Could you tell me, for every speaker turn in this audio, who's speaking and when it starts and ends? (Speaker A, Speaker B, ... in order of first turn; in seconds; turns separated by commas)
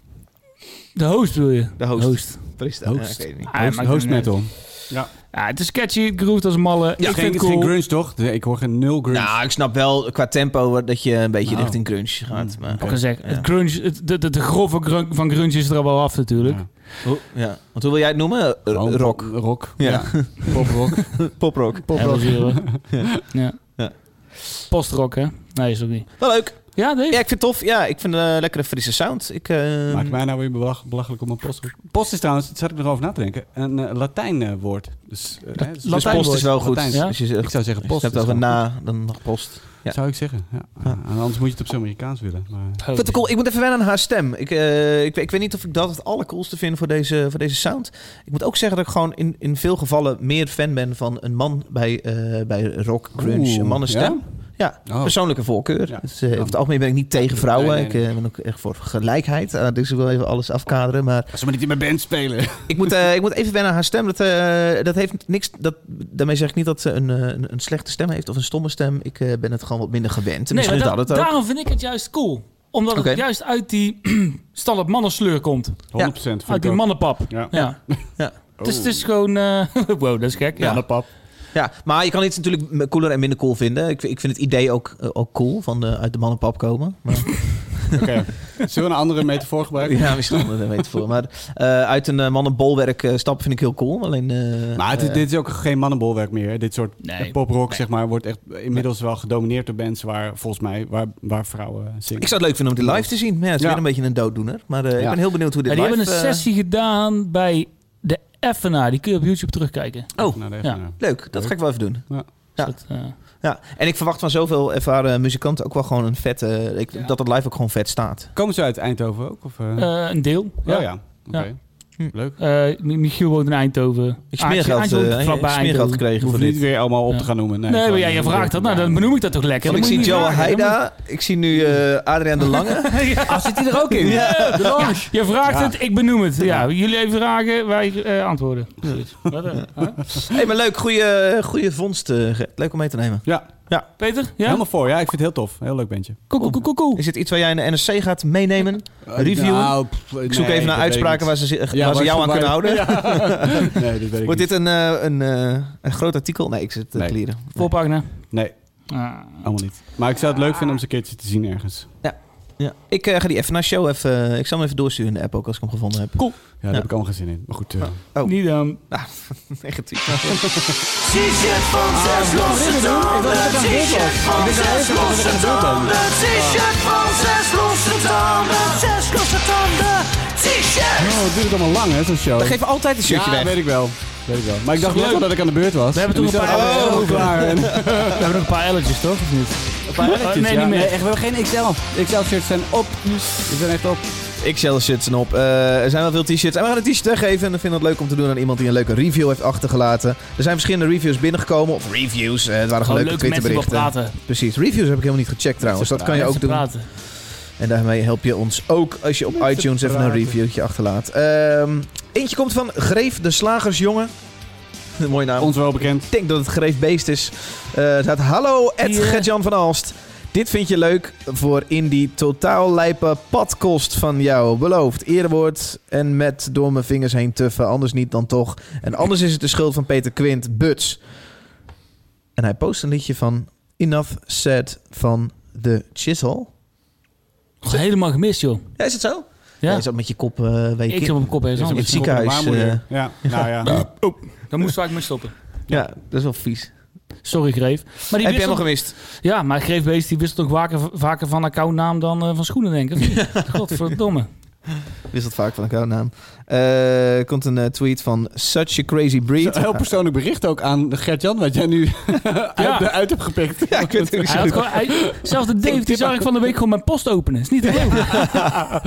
Speaker A: 0.9-2.6, Speaker B: 1.8-3.5, Speaker C: 2.8-5.1, Speaker A: 3.5-7.7, Speaker C: 7.0-9.4, Speaker B: 9.1-13.4, Speaker C: 11.4-13.0, Speaker A: 12.8-16.7, Speaker C: 16.4-16.7, Speaker B: 17.0-23.9, Speaker C: 18.7-23.0, Speaker A: 21.9-27.2, Speaker B: 26.2-30.2, Speaker C: 29.9-38.7, Speaker A: 35.7-37.1, Speaker B: 35.8-41.0, Speaker C: 39.8-43.2, Speaker A: 42.8-43.2, Speaker B: 42.9-61.3, Speaker C: 53.2-58.0, Speaker C: 61.3-62.9, Speaker B: 62.7-71.3, Speaker A: 70.5-81.0, Speaker B: 72.9-73.2, Speaker C: 75.9-79.0, Speaker B: 77.5-78.4, Speaker C: 80.6-81.0, Speaker B: 80.6-80.8, Speaker B: 81.5-88.0, Speaker C: 87.9-90.5, Speaker B: 89.8-95.2, Speaker C: 94.8-103.8, Speaker A: 97.0-97.4, Speaker B: 102.2-106.5, Speaker A: 105.6-110.8, Speaker B: 110.1-118.3, Speaker C: 110.3-112.3, Speaker A: 112.6-113.2, Speaker C: 118.3-122.4, Speaker A: 119.8-126.0, Speaker B: 124.3-126.6, Speaker C: 126.2-130.4, Speaker A: 127.0-130.8, Speaker B: 129.6-133.3, Speaker C: 131.5-131.8, Speaker A: 132.9-140.0, Speaker C: 133.2-136.6, Speaker B: 133.9-134.9, Speaker B: 140.3-143.9, Speaker A: 144.0-144.6, Speaker C: 144.4-146.3, Speaker A: 146.3-147.0, Speaker B: 146.4-153.6, Speaker C: 149.0-154.5, Speaker B: 154.2-157.7, Speaker A: 157.5-159.4, Speaker C: 158.3-161.9, Speaker B: 162.0-166.9, Speaker C: 166.6-168.0, Speaker B: 167.8-170.4, Speaker A: 168.2-168.8, Speaker C: 170.2-170.8, Speaker A: 171.9-174.4, Speaker D: 172.3-173.2, Speaker C: 173.1-176.6, Speaker D: 173.8-178.8, Speaker C: 180.9-188.2, Speaker B: 182.4-183.6, Speaker A: 184.8-185.3, Speaker A: 185.9-190.9, Speaker B: 186.4-188.1, Speaker C: 189.8-194.1, Speaker B: 194.4-207.0, Speaker A: 202.8-204.2, Speaker C: 205.7-206.2, Speaker A: 206.1-206.9, Speaker B: 207.6-214.1, Speaker C: 209.3-210.4, Speaker B: 215.0-231.1, Speaker C: 215.4-216.1, Speaker A: 218.8-219.3, Speaker B: 232.3-236.5, Speaker A: 237.6-238.8, Speaker B: 238.8-244.0, Speaker A: 239.6-239.8, Speaker A: 240.9-242.1, Speaker C: 241.6-243.9, Speaker A: 243.6-245.3, Speaker B: 245.7-246.7, Speaker A: 247.2-254.3, Speaker B: 248.1-248.9, Speaker B: 255.1-259.8, Speaker C: 259.4-266.3, Speaker A: 262.6-262.9, Speaker B: 263.7-265.0, Speaker A: 264.2-268.3